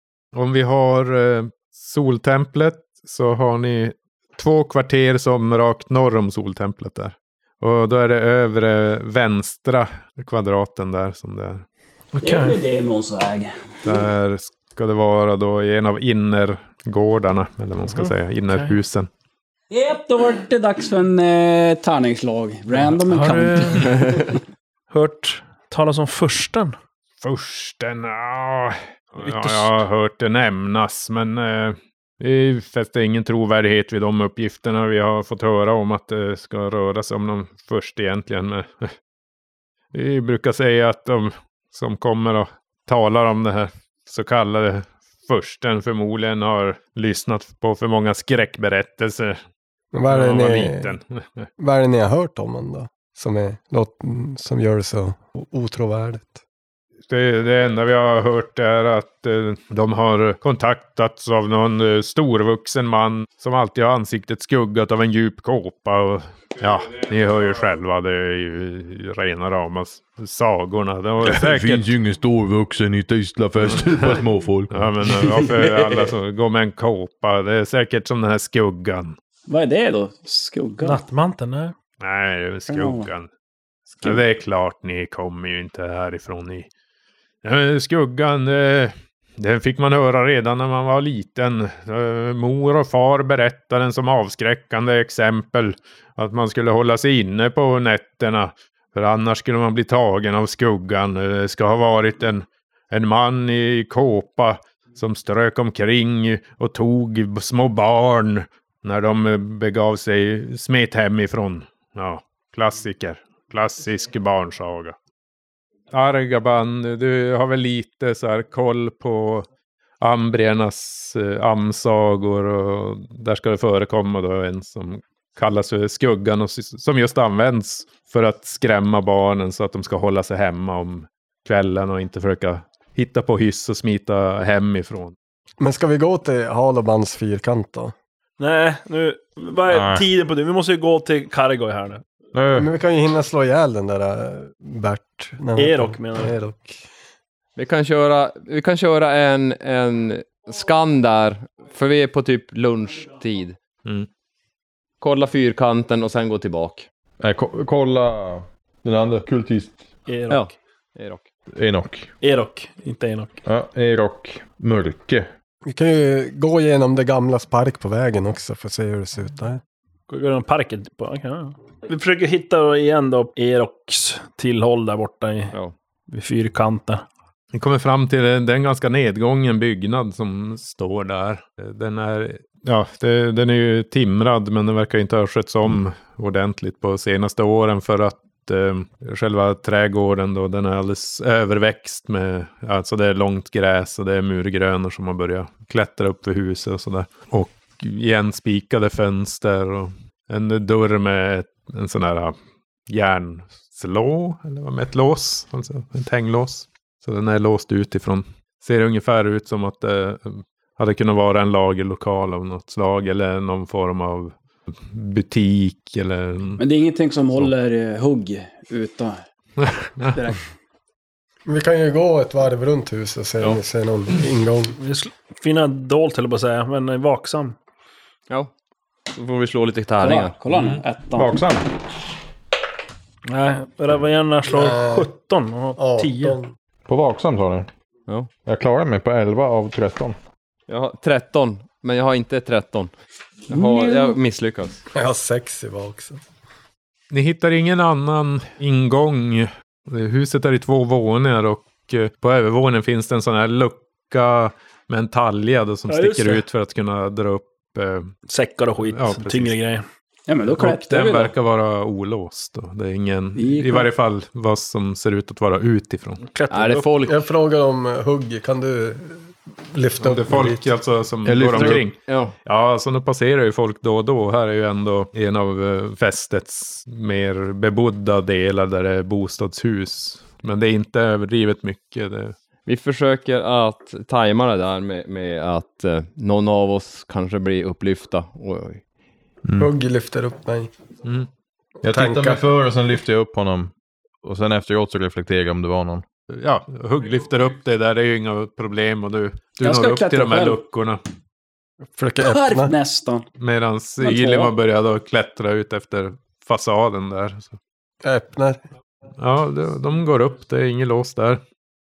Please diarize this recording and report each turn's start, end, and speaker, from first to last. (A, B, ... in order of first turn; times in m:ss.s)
0:00.3-0:11.6 A
0:12.1-0:12.6 B
0:12.2-0:14.0 C
0:13.8-0:19.1 A
0:17.8-0:18.8 B
0:19.7-0:24.3 C
0:23.0-0:24.2 B
0:24.9-0:26.8 B
0:27.2-0:38.9 A
0:29.2-0:29.8 B
0:39.9-0:49.4 A
0:49.9-0:50.9 D
0:50.1-0:51.5 A
0:51.6-0:56.4 D
0:57.1-1:11.8 A
1:11.2-1:15.2 E
1:13.7-1:14.2 A
1:14.7-1:19.2 A
1:19.5-1:21.0 C
1:20.8-1:21.7 B
1:22.0-1:23.3 A
1:22.7-1:23.1 C
1:24.0-1:26.7 A
1:27.4-1:55.0 A
1:55.9-1:59.5 A
2:00.0-2:15.1 A
2:15.6-2:17.9 D
2:18.4-2:22.0 B
2:19.7-2:20.0 E
2:22.3-2:22.7 E
2:22.5-2:26.8 D
2:25.6-2:26.4 B
2:27.6-2:33.6 F
2:35.0-2:36.9 F
2:37.2-2:39.8 E
2:40.1-2:40.5 B
2:40.3-2:41.2 F
2:41.5-2:42.1 E
2:42.2-2:43.4 B
2:43.4-2:45.3 E
2:45.6-2:49.6 D
2:50.1-2:55.5 B
2:56.1-2:57.0 B
2:57.5-3:22.4 A
3:22.9-3:36.6 A
3:36.6-3:39.2 C
3:39.6-3:40.2 A
3:40.1-3:40.4 C
3:41.4-3:44.8 D
3:44.8-3:47.6 B
3:49.1-3:50.4 F
3:50.0-3:51.3 C
3:50.5-3:50.8 A
3:51.2-3:51.7 E
3:53.3-3:56.4 B
3:54.4-3:55.1 D
3:55.8-3:56.5 D
3:56.8-3:57.7 E
3:58.4-4:00.2 E
4:00.7-4:02.9 F
4:03.5-4:04.8 F
4:03.5-4:04.2 C
4:04.9-4:06.2 D
4:07.1-4:18.1 A
4:15.9-4:16.4 B
4:18.3-4:19.8 B
4:18.8-4:19.5 A
4:20.3-4:21.3 C
4:20.5-4:26.2 A
4:23.4-4:23.9 C
4:26.2-4:26.9 B
4:26.5-4:27.2 F
4:27.0-4:30.7 D
4:30.0-4:42.3 A
4:31.2-4:31.9 E
4:32.1-4:32.3 F
4:42.6-4:48.8 F
4:49.4-4:49.7 E
4:49.6-4:50.7 D
4:51.8-4:56.0 E
4:51.9-4:52.4 D
4:56.3-5:01.0 A
4:59.6-5:00.6 C
5:01.9-5:02.7 D
5:02.2-5:03.3 C
5:03.4-5:07.6 A
5:04.0-5:04.5 C
5:08.0-5:08.6 D
5:09.2-5:11.4 A